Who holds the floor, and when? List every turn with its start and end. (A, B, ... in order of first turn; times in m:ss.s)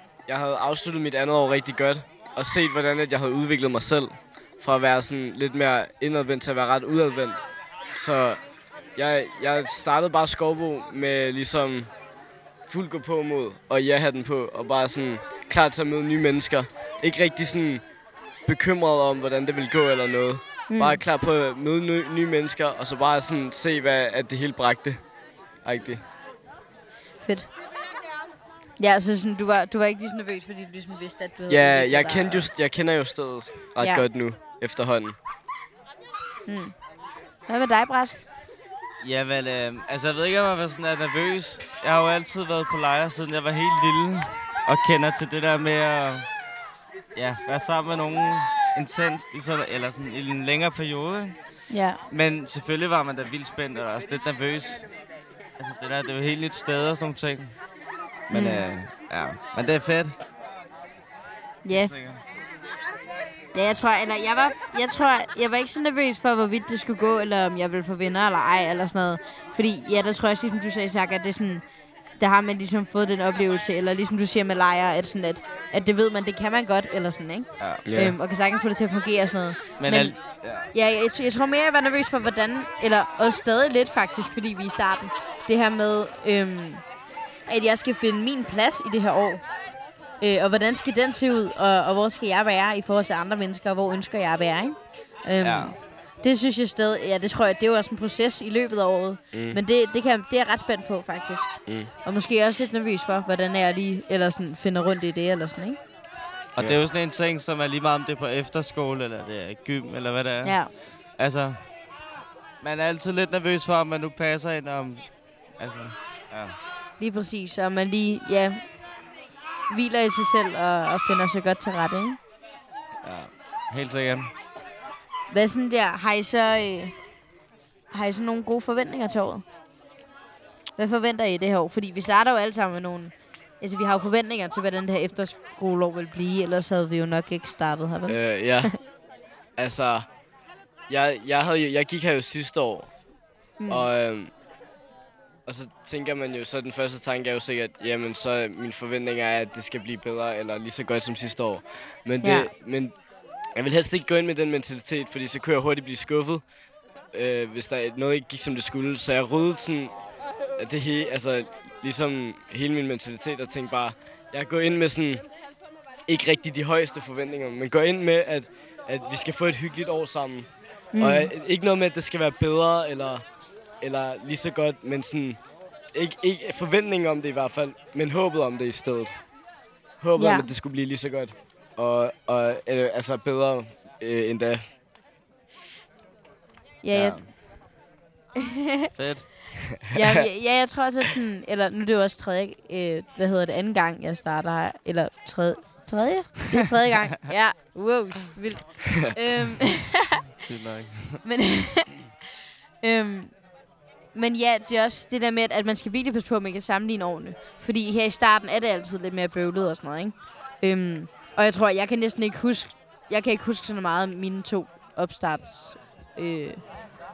0:00.3-0:08.4 A
0:09.0-0:11.9 A
0:12.7-0:17.8 A
0:18.5-0:25.0 A
0:20.7-0:21.0 B
0:25.6-0:26.0 A
0:27.2-0:27.5 B
0:28.8-0:32.5 B
0:31.5-0:35.2 A
0:36.5-0:36.8 B
0:37.5-0:38.2 B
0:39.0-0:46.3 C
0:47.1-0:51.4 C
0:51.7-0:52.0 B
0:52.1-0:54.8 C
0:55.6-0:57.6 C
0:58.3-0:58.6 B
0:58.3-1:00.2 C
1:01.6-1:01.9 B
1:01.8-1:02.2 C
1:03.5-1:11.6 B
1:12.2-1:20.2 B
1:17.6-1:17.9 C
1:17.9-1:18.2 A
1:19.8-1:20.7 C
1:20.7-1:26.8 B
1:27.5-1:29.4 B
1:30.2-1:41.5 B
1:35.4-1:35.8 C
1:39.3-1:39.6 A
1:42.0-1:45.8 B
1:46.6-1:51.6 C
1:50.4-1:50.7 B
1:52.6-1:55.0 C
1:55.6-1:56.6 C
1:57.0-1:58.6 B
1:59.7-2:02.2 B
2:03.0-2:04.3 C
2:05.3-2:06.9 B
2:07.9-2:09.4 B
2:10.8-2:18.8 B
2:18.1-2:18.7 A
2:19.6-2:20.1 A
2:20.9-2:22.9 A
2:23.6-2:23.9 B
2:23.7-2:24.3 A
2:25.4-2:32.9 A
2:32.2-2:32.5 B
2:33.6-2:36.4 A
2:37.1-2:39.9 A
2:40.6-2:45.2 A
2:46.1-2:53.2 A
2:50.9-2:51.3 B
2:53.8-2:55.4 A
2:55.9-2:59.1 A
3:00.0-3:04.6 A
3:00.2-3:00.5 B
3:06.8-3:07.2 B
3:06.9-3:07.2 C
3:08.4-3:08.9 B
3:08.9-3:09.5 C
3:09.8-3:10.2 A
3:09.9-3:20.2 B
3:20.4-3:21.2 C
3:21.2-3:22.0 B
3:22.8-3:23.3 B
3:24.1-3:36.6 B